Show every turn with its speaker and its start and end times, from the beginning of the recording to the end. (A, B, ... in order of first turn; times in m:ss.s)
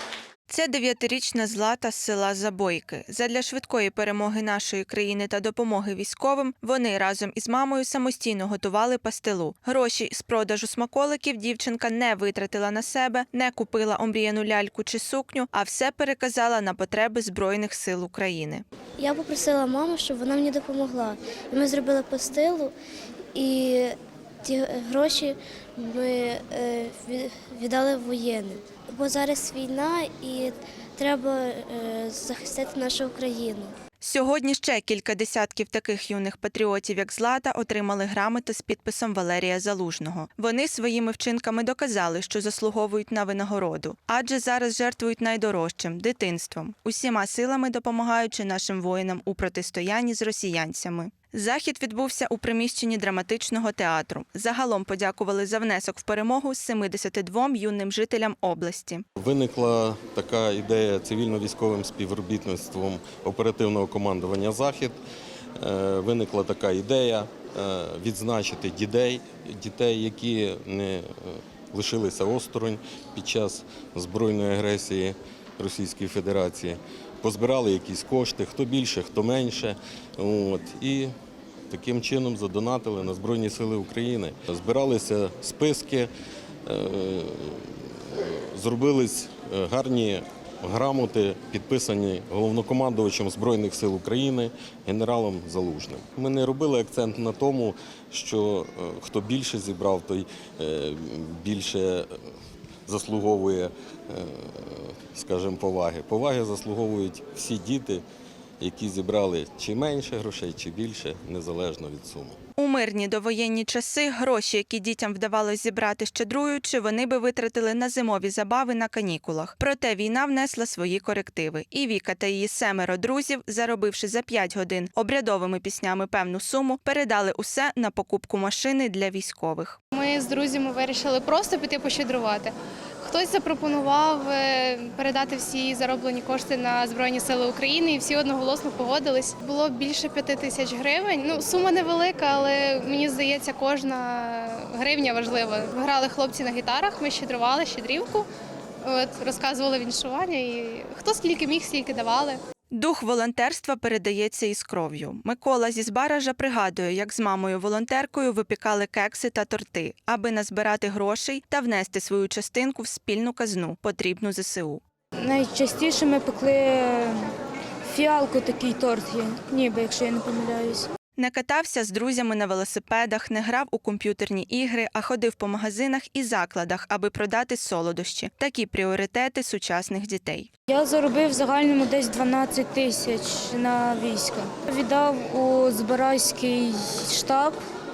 0:00.5-0:18.6 A
0:19.0-0:22.7 B
0:23.4-0:33.7 B
0:34.0-0:59.0 A
0:59.2-1:05.0 C
1:05.6-1:21.1 C
1:21.7-1:26.1 C
1:26.7-1:42.1 C
1:42.9-1:48.0 C
1:48.6-1:52.4 C
1:52.6-2:09.8 A
2:10.0-2:12.5 D
2:13.0-2:28.3 D
2:28.8-2:32.4 D
2:32.7-2:44.8 A
2:45.2-2:47.3 E
2:47.8-2:50.9 E
2:51.2-3:00.5 A
3:00.7-3:07.6 E